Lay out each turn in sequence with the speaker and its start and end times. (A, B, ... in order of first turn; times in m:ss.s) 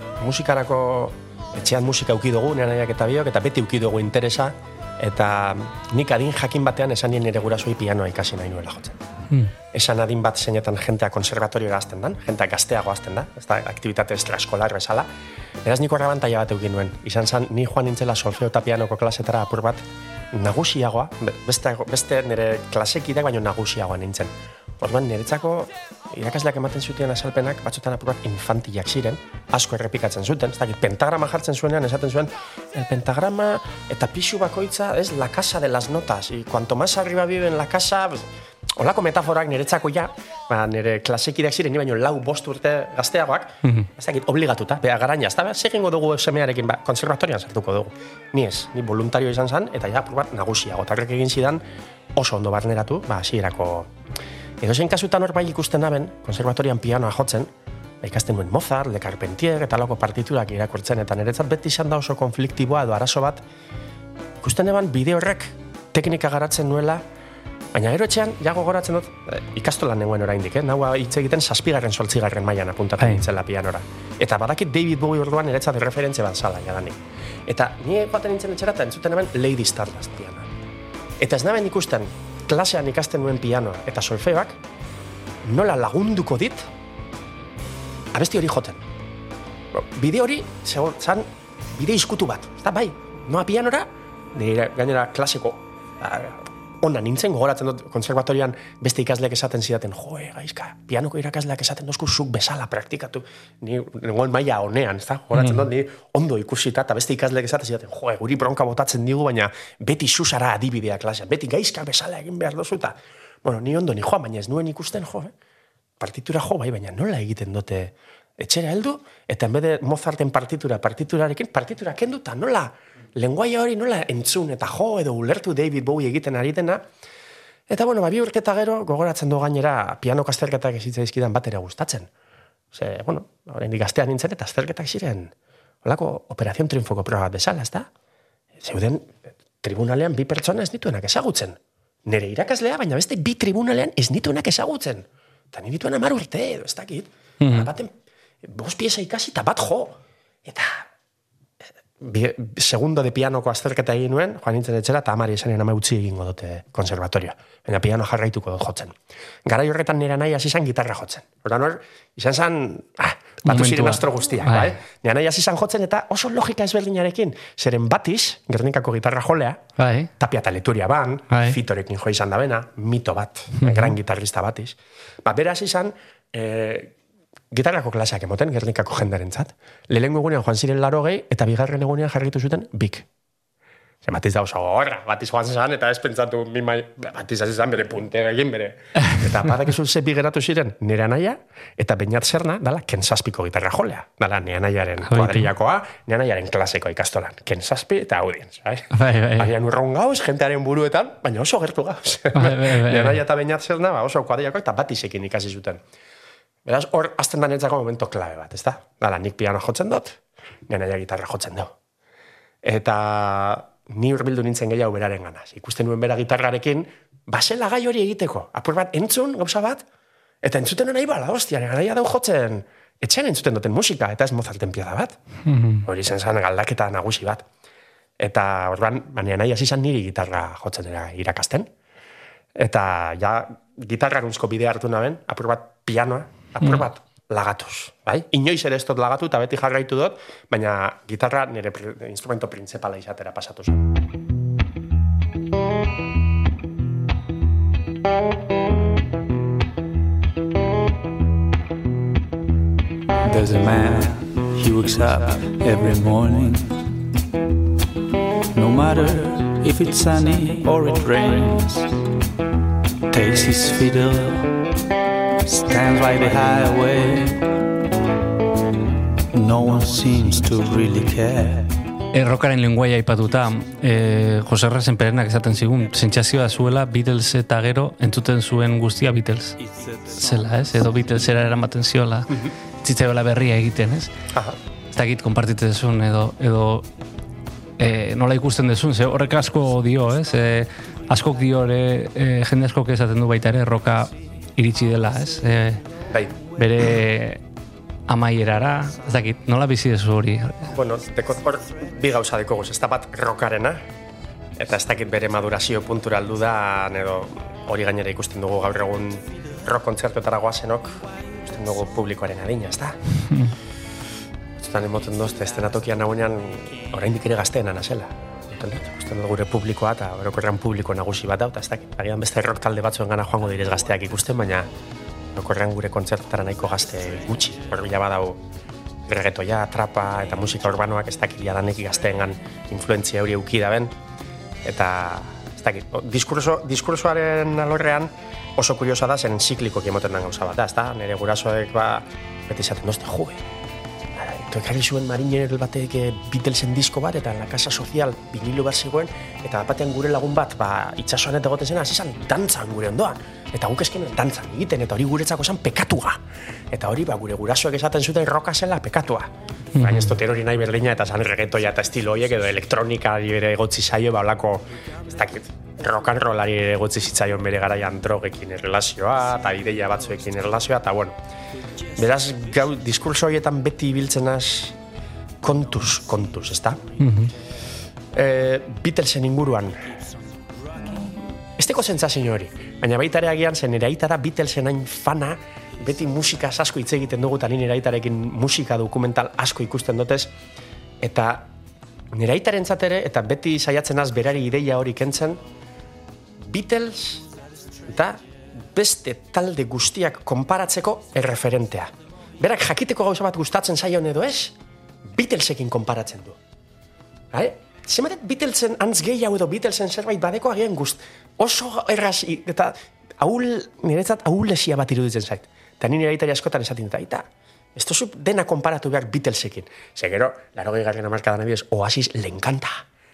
0:00.2-0:09.0 A
0:09.7-0:15.1 A
0:15.6-0:51.6 A
0:43.6-0:43.9 B
0:52.2-0:53.9 A
0:54.6-0:57.5 A
0:58.0-1:03.4 A
1:04.4-1:07.0 A
1:07.7-1:20.5 A
1:13.0-1:13.2 B
1:21.2-1:24.6 A
1:25.4-1:26.7 A
1:28.1-1:28.8 A
1:29.7-1:55.3 A
1:45.3-1:45.7 B
1:56.0-2:06.8 A
2:07.7-2:12.1 A
2:12.7-2:15.3 A
2:15.8-2:17.9 A
2:18.6-2:30.9 A
2:27.4-2:27.7 B
2:32.0-2:49.6 A
2:43.5-2:44.7 B
2:49.8-2:50.1 B
2:50.2-2:56.9 A
2:51.3-2:51.6 B
2:53.6-2:53.9 B
2:57.5-3:03.1 A
3:04.0-3:25.8 A
3:15.1-3:15.5 B
3:18.9-3:19.5 B
3:22.3-3:23.2 B
3:26.6-3:31.7 A
3:32.6-3:39.8 A
3:40.4-3:45.2 A
3:45.5-3:45.8 B
3:45.8-3:47.5 A
3:48.2-3:51.7 A
3:52.6-4:03.9 A
4:13.2-4:16.8 C
4:18.5-4:21.9 C
4:23.1-4:24.5 C
4:25.4-4:27.4 C
4:29.3-4:31.7 C
4:32.1-4:39.6 B
4:40.1-4:44.1 B
4:44.3-4:44.6 A
4:44.9-4:46.9 B
4:47.8-4:55.8 B
4:56.1-4:56.4 A
4:56.6-4:57.4 B
4:58.1-5:00.7 B
5:00.7-5:03.9 A
5:04.6-5:13.0 A
5:13.3-5:13.6 B
5:14.6-5:24.7 A
5:25.3-5:28.4 A
5:29.1-5:34.0 A
5:34.6-5:43.4 A
5:44.1-5:56.2 A
5:56.7-6:11.2 A
5:59.8-6:00.2 B
6:11.9-6:14.8 A
6:15.4-6:16.8 A
6:17.0-6:17.3 B
6:18.1-6:19.9 A
6:21.1-6:30.3 A
6:31.0-6:31.5 A
6:32.1-6:35.4 A
6:36.4-6:37.3 A
6:37.9-6:46.4 A
6:47.3-7:02.8 A